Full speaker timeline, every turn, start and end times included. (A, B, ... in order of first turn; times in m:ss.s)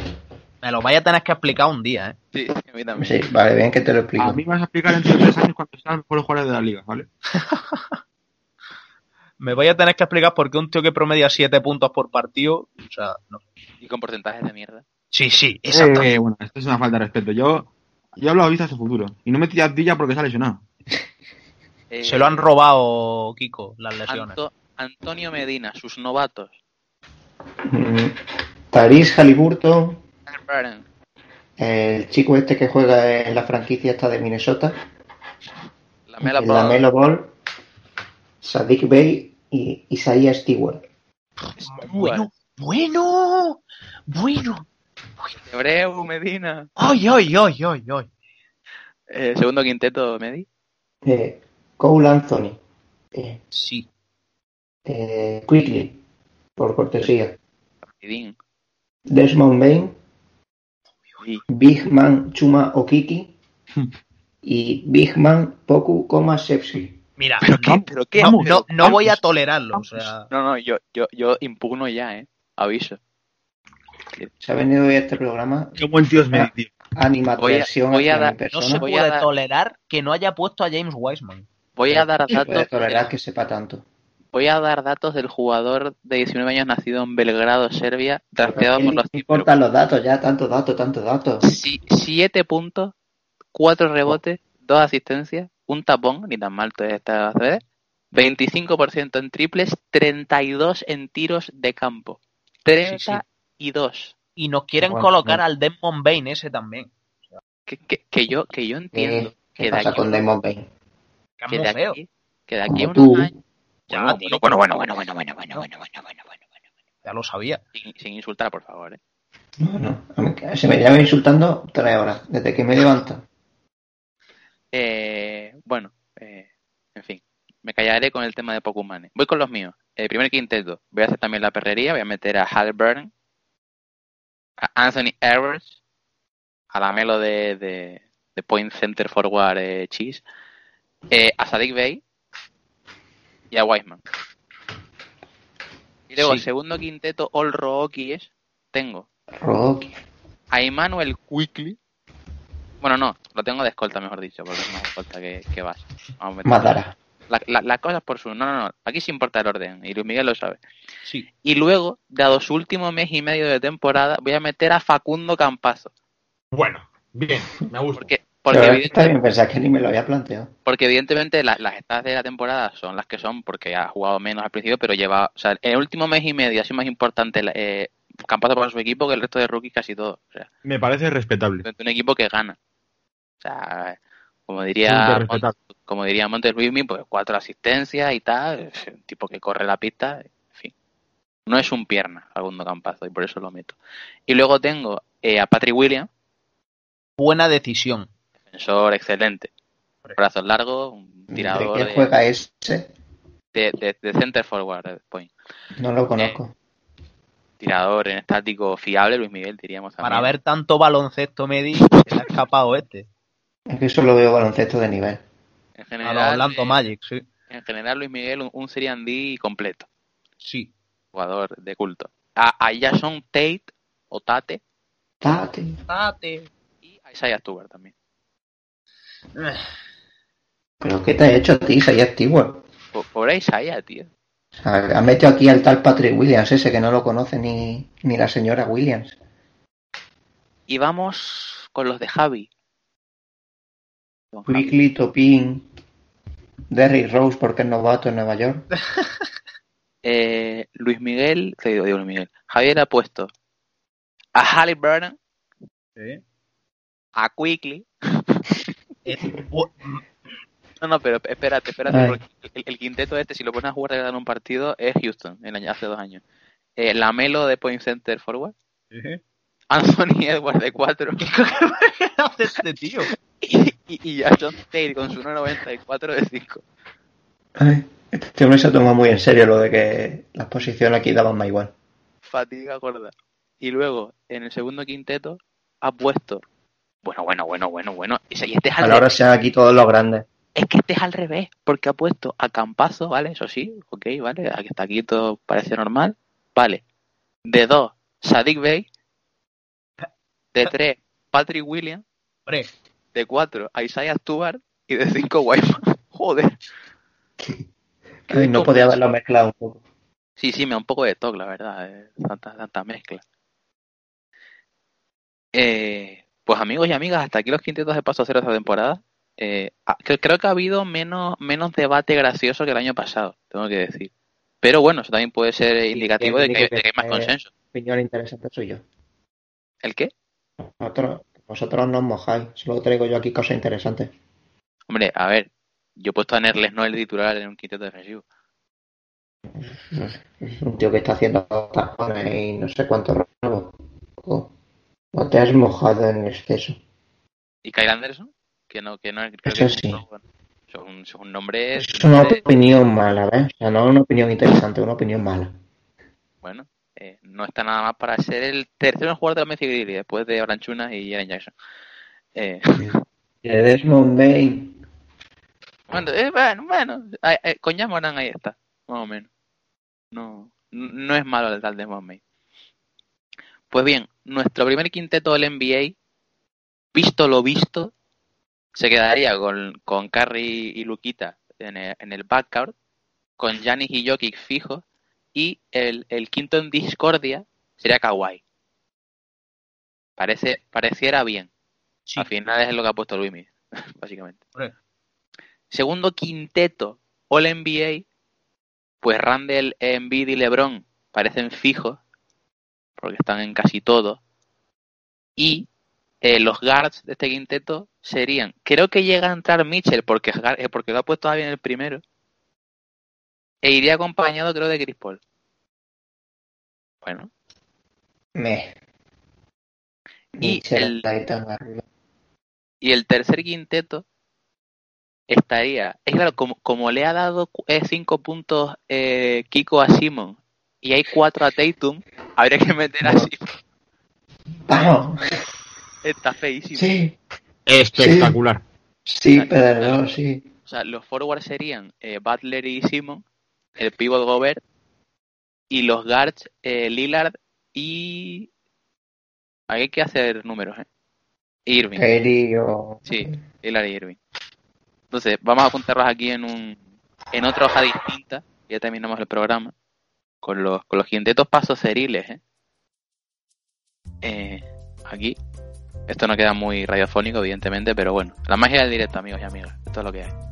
0:00.6-0:02.2 A
0:02.3-0:03.2 B
0:03.0-0:04.4 C
0:04.2-0:07.1 D
0:07.3-0:08.0 A
0:09.4-0:13.4 A
0:13.8-0:14.8 B
0:15.1-0:16.1 A
0:15.7-0:20.6 D
0:21.9-0:22.4 B
0:22.0-0:24.4 A
0:24.1-0:26.5 B
0:27.7-0:28.1 C
0:28.7-0:30.0 C
0:30.3-0:30.8 B
0:31.6-0:34.7 C
0:36.1-0:36.8 B
0:36.2-0:37.3 C
0:38.4-0:40.8 C
0:41.6-0:44.7 A
0:41.6-0:42.3 B
0:45.4-0:46.7 B
0:46.8-0:48.1 A
0:49.1-0:50.4 B
0:51.0-0:52.6 C
0:53.1-0:53.4 C
0:53.5-0:53.9 A
0:54.8-0:56.0 C
0:56.6-0:57.4 C
0:57.9-0:58.4 B
0:59.1-1:00.0 C
1:01.5-1:03.3 C
1:04.4-1:07.0 C
1:07.2-1:10.3 A
1:07.4-1:09.0 B
1:07.5-1:09.2 D
1:10.3-1:13.0 B
1:14.4-1:18.8 C
1:15.8-1:16.7 D
1:17.4-1:19.3 B
1:18.5-1:21.5 A
1:21.8-1:23.1 B
1:22.3-1:23.8 C
1:24.3-1:29.5 B
1:28.4-1:31.4 C
1:31.4-1:32.9 B
1:33.5-1:44.1 B
1:42.9-1:43.2 A
1:44.4-1:47.4 A
1:44.8-1:45.4 C
1:47.7-1:50.2 B
1:48.9-1:50.6 C
1:51.4-1:52.0 A
1:51.5-1:53.3 B
1:52.7-1:53.3 C
1:53.9-1:54.7 A
1:53.9-1:56.2 B
1:57.0-1:57.6 A
1:57.7-1:59.0 B
1:59.6-2:03.2 C
2:04.7-2:13.1 B
2:14.6-2:15.7 B
2:16.7-2:20.2 B
2:21.1-2:22.0 B
2:23.5-2:24.0 B
2:26.1-2:29.0 B
2:26.2-2:26.4 A
2:29.4-2:30.0 C
2:30.5-2:31.8 B
2:32.8-2:36.8 B
2:36.4-2:36.9 C
2:37.3-2:40.6 B
2:41.4-2:45.9 B
2:46.5-2:48.1 D
2:47.9-2:49.1 B
2:48.5-2:50.5 C
2:50.6-3:00.5 B
3:00.6-3:01.7 D
3:01.6-3:02.6 B
3:03.4-3:10.7 B
3:04.8-3:05.5 D
3:11.5-3:13.8 B
3:14.3-3:16.1 B
3:17.2-3:18.1 A
3:18.5-3:19.5 B
3:20.2-3:22.1 B
3:21.3-3:22.9 C
3:23.5-3:25.3 B
3:25.8-3:26.5 C
3:27.6-3:30.3 B
3:30.0-3:33.1 A
3:33.7-3:35.2 C
3:35.8-3:36.8 B
3:36.0-3:37.2 A
3:37.5-3:39.9 B
3:40.4-3:40.7 A
3:41.1-3:44.6 B
3:45.2-3:45.8 C
3:45.9-3:46.5 A
3:46.8-3:47.9 B
3:49.4-3:49.6 A
3:50.8-3:52.6 C
3:52.9-3:54.1 B
3:54.6-3:59.2 C
4:00.7-4:02.5 B
4:04.3-4:04.7 B
4:04.5-4:05.7 C
4:06.7-4:08.6 C
4:10.0-4:13.3 B
4:14.4-4:15.1 B
4:16.0-4:16.2 A
4:17.2-4:18.5 B
4:19.0-4:20.0 A
4:20.8-4:26.2 B
4:21.9-4:22.2 C
4:26.8-4:28.5 B
4:28.9-4:29.2 A
4:29.7-4:31.2 B
4:31.2-4:33.1 A
4:33.4-4:36.6 B
4:37.6-4:41.7 C
4:42.3-4:46.4 B
4:47.0-4:49.2 B
4:48.8-4:50.2 C
4:50.5-4:56.8 B
4:57.4-4:58.8 B
5:00.5-5:02.0 B
5:03.1-5:06.5 B
5:08.3-5:09.8 C
5:08.3-5:09.0 B
5:10.4-5:13.2 B
5:15.5-5:24.1 B
5:24.6-5:27.5 B
5:25.9-5:28.8 C
5:29.8-5:30.1 B
5:30.8-5:34.1 C
5:34.9-5:38.2 B
5:39.5-5:44.5 C
5:45.1-5:46.8 C
5:47.6-5:50.2 B
5:49.4-5:50.0 C
5:50.7-5:52.4 B
5:51.8-5:55.5 C
5:56.4-6:01.5 B
6:02.3-6:03.0 B
6:02.8-6:04.7 C
6:05.9-6:09.3 B
6:10.1-6:12.2 B
6:13.7-6:15.9 B
6:16.9-6:17.9 B
6:18.7-6:22.7 B
6:23.4-6:24.8 B
6:25.3-6:28.4 B
6:30.2-6:31.5 B
6:32.2-6:34.4 B
6:35.7-6:38.0 B
6:39.0-6:42.0 B
6:43.0-6:44.2 B
6:45.4-6:45.7 B
6:46.2-6:52.0 B
6:53.6-6:55.2 B
6:57.0-6:57.3 B
6:58.4-6:58.7 C
7:00.4-7:01.8 C
7:00.4-7:01.0 B
7:02.8-7:04.0 B
7:05.3-7:13.4 B
7:13.0-7:13.3 C
7:14.7-7:15.2 C
7:16.0-7:16.9 B
7:16.7-7:17.1 C
7:17.7-7:18.6 D
7:17.9-7:18.4 C
7:19.1-7:20.4 C
7:19.3-7:20.0 B
7:20.7-7:23.2 B
7:23.8-7:24.6 B
7:25.7-7:28.5 B
7:29.7-7:30.8 B
7:31.7-7:32.0 B
7:32.0-7:33.2 C
7:33.1-7:34.2 B
7:35.1-7:36.8 B
7:37.3-7:39.7 B
7:40.4-7:42.4 B
7:44.2-7:45.4 B
7:46.1-7:50.3 B